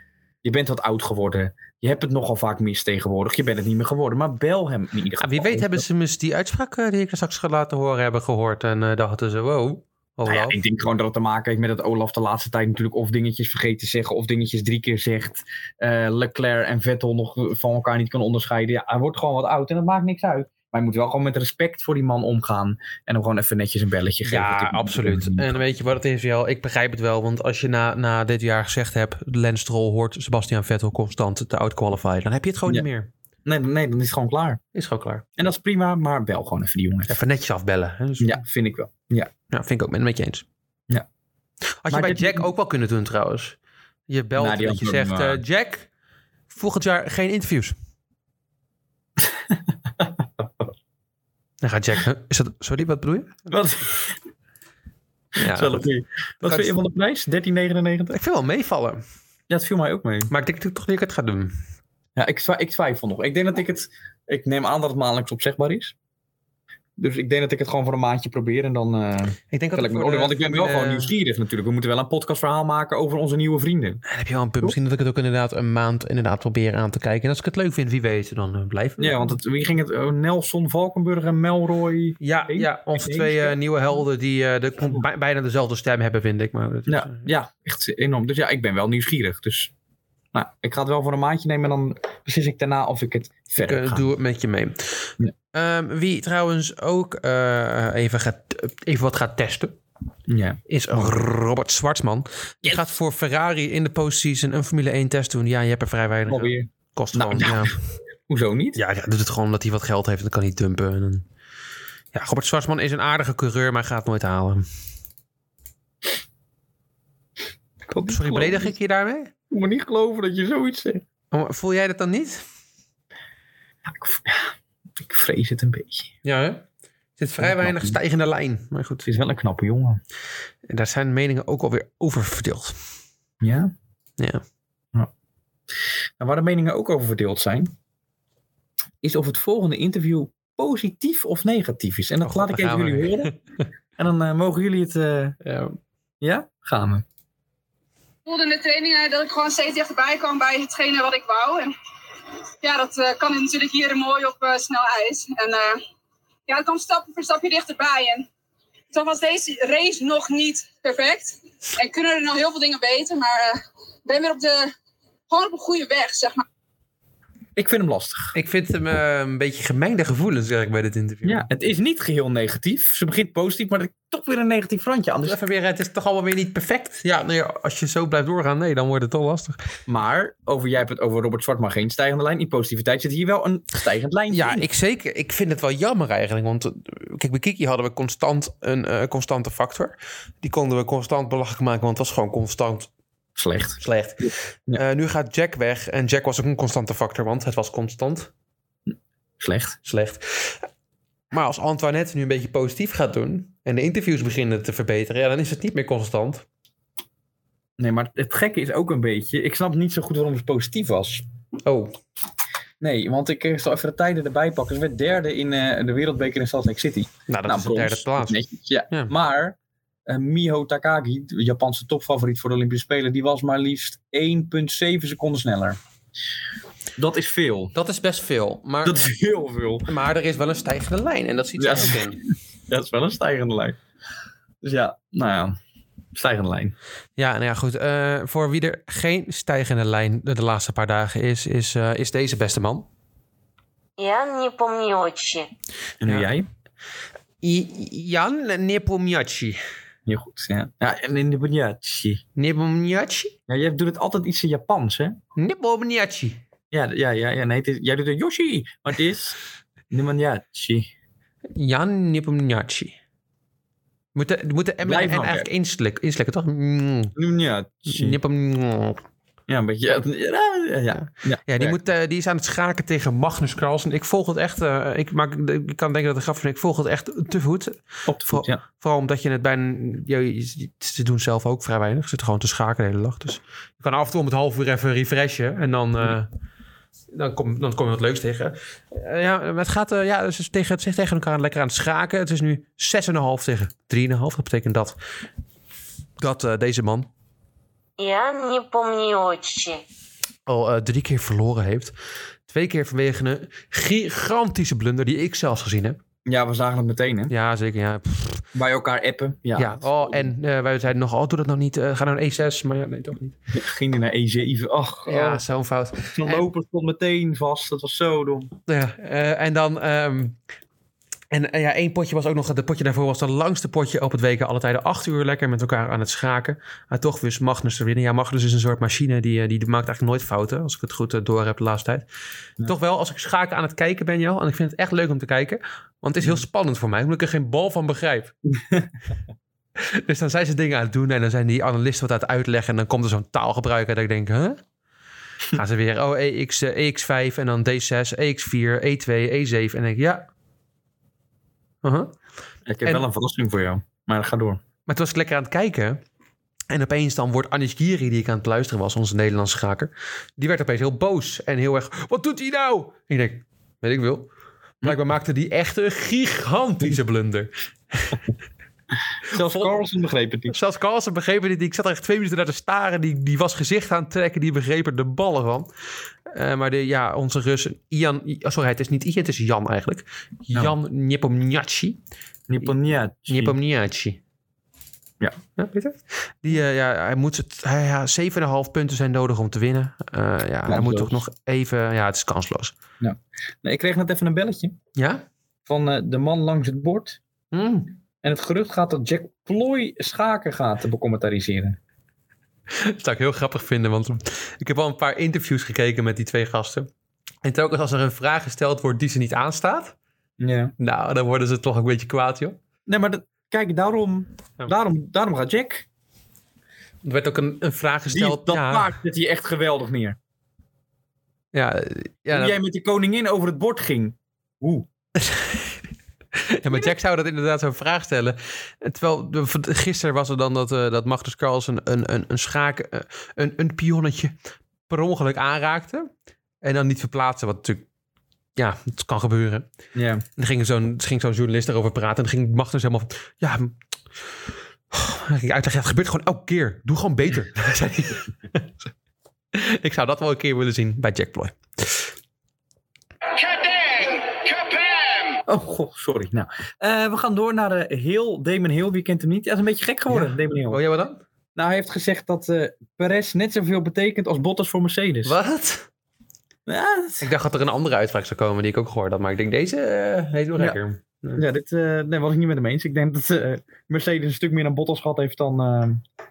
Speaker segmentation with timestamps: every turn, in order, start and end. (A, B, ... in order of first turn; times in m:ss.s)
0:00.4-0:05.8 A
0:05.2-0:10.6 B
0:10.3-0:25.6 A
0:24.2-0:33.1 B
0:33.4-0:34.6 A
0:34.8-0:35.2 B
0:35.4-0:37.2 A
0:37.1-0:38.4 B
0:38.2-0:39.3 A
0:39.5-0:40.4 B
0:41.8-0:43.6 B
0:41.9-0:42.4 A
0:44.1-0:45.9 B
0:44.4-0:45.4 A
0:46.5-0:47.8 B
0:51.6-0:53.5 B
0:53.5-0:54.1 A
0:55.4-0:55.9 B
0:55.5-0:58.2 A
0:56.4-0:56.8 B
0:58.1-0:59.0 B
0:59.5-1:00.3 A
1:00.3-1:01.6 B
1:02.2-1:05.9 A
1:07.0-1:14.0 A
1:09.5-1:11.1 B
1:14.1-1:19.3 B
1:19.0-1:23.6 A
1:22.2-1:27.3 B
1:26.9-1:29.7 A
1:30.3-1:34.1 A
1:33.6-1:39.8 B
1:40.3-1:41.2 A
1:40.7-1:47.8 B
1:46.3-1:47.7 A
1:48.3-1:48.8 A
1:48.8-1:51.2 B
1:52.1-1:54.6 B
1:57.9-1:58.7 A
1:58.1-1:59.3 B
1:59.5-2:01.0 A
2:01.3-2:02.4 B
2:03.9-2:06.1 A
2:06.2-2:06.6 B
2:07.2-2:09.1 B
2:07.4-2:08.0 A
2:09.1-2:10.0 A
2:10.7-2:12.8 B
2:13.4-2:13.7 A
2:16.2-2:17.7 A
2:19.0-2:23.3 A
2:22.2-2:23.4 B
2:24.0-2:25.4 A
2:25.4-2:25.8 B
2:26.2-2:27.0 A
2:28.3-2:31.7 C
2:32.6-2:35.8 C
2:36.5-2:38.3 C
2:38.9-2:44.7 C
2:45.3-2:46.4 C
2:47.6-2:48.3 A
2:48.3-2:51.4 B
2:51.2-2:55.4 A
2:55.2-2:59.6 B
2:59.9-3:04.6 A
3:04.3-3:12.9 B
3:13.4-3:14.8 A
3:13.8-3:18.3 B
3:18.9-3:19.8 A
3:19.8-3:20.6 B
3:21.3-3:26.4 B
3:27.8-3:31.2 A
3:31.6-3:32.0 B
3:32.8-3:39.6 A
3:37.3-3:38.4 B
3:40.1-3:45.8 A
3:47.0-3:47.7 A
3:47.7-3:49.0 B
3:48.8-3:49.9 A
3:49.9-3:52.2 B
3:51.6-3:52.0 A
3:52.7-3:53.8 A
3:54.6-3:55.6 A
3:56.1-3:56.8 A
3:57.2-4:02.9 B
4:04.0-4:05.5 D
4:06.0-4:06.4 A
4:07.4-4:09.6 B
4:10.1-4:12.2 A
4:12.4-4:13.3 B
4:13.5-4:15.2 A
4:15.4-4:16.4 B
4:16.7-4:19.4 A
4:19.9-4:20.9 A
4:21.6-4:23.0 B
4:24.1-4:27.1 B
4:24.8-4:25.5 A
4:27.2-4:28.2 A
4:27.9-4:29.0 B
4:29.5-4:31.8 A
4:31.0-4:46.3 B
4:38.1-4:38.6 A
4:47.1-4:55.0 B
4:56.2-4:57.1 B
4:58.0-4:59.8 D
5:00.4-5:01.9 B
5:02.5-5:06.0 B
5:06.3-5:07.3 A
5:07.3-5:08.4 B
5:08.5-5:10.3 A
5:09.6-5:13.4 B
5:13.5-5:15.4 A
5:15.1-5:16.5 B
5:16.2-5:18.5 A
5:18.7-5:20.4 B
5:21.3-5:32.0 B
5:32.6-5:38.3 B
5:38.5-5:38.9 A
5:39.8-5:44.6 B
5:45.5-5:50.3 B
5:51.8-5:52.1 B
5:52.7-5:54.6 A
5:54.9-5:56.0 B
5:56.7-6:04.3 B
6:04.8-6:08.2 B
6:09.3-6:10.5 A
6:09.3-6:09.7 B
6:10.5-6:15.7 B
6:16.3-6:22.0 B
6:22.5-6:23.6 A
6:23.3-6:24.2 B
6:25.6-6:32.7 B
6:30.7-6:31.1 A
6:33.0-6:34.8 A
6:35.0-6:35.2 B
6:35.7-6:37.2 A
6:37.5-6:38.0 B
6:38.2-6:41.8 A
6:42.8-6:46.9 B
6:47.4-6:50.0 B
6:50.4-6:50.7 A
6:50.8-6:52.6 B
6:52.9-6:55.8 A
6:57.0-6:58.9 B
6:58.1-7:00.2 A
7:01.5-7:02.6 B
7:02.3-7:04.9 A
7:05.2-7:05.7 B
7:06.4-7:14.3 B
7:14.9-7:16.1 B
7:16.6-7:17.8 B
7:18.6-7:19.7 B
7:20.0-7:20.2 A
7:20.4-7:23.7 B
7:24.9-7:28.7 B
7:29.5-7:32.1 B
7:35.5-7:40.8 A
7:40.1-7:41.2 B
7:41.6-7:45.4 A
7:45.3-7:45.9 B
7:46.7-7:47.3 A
7:47.2-7:51.4 B
7:51.4-7:56.0 A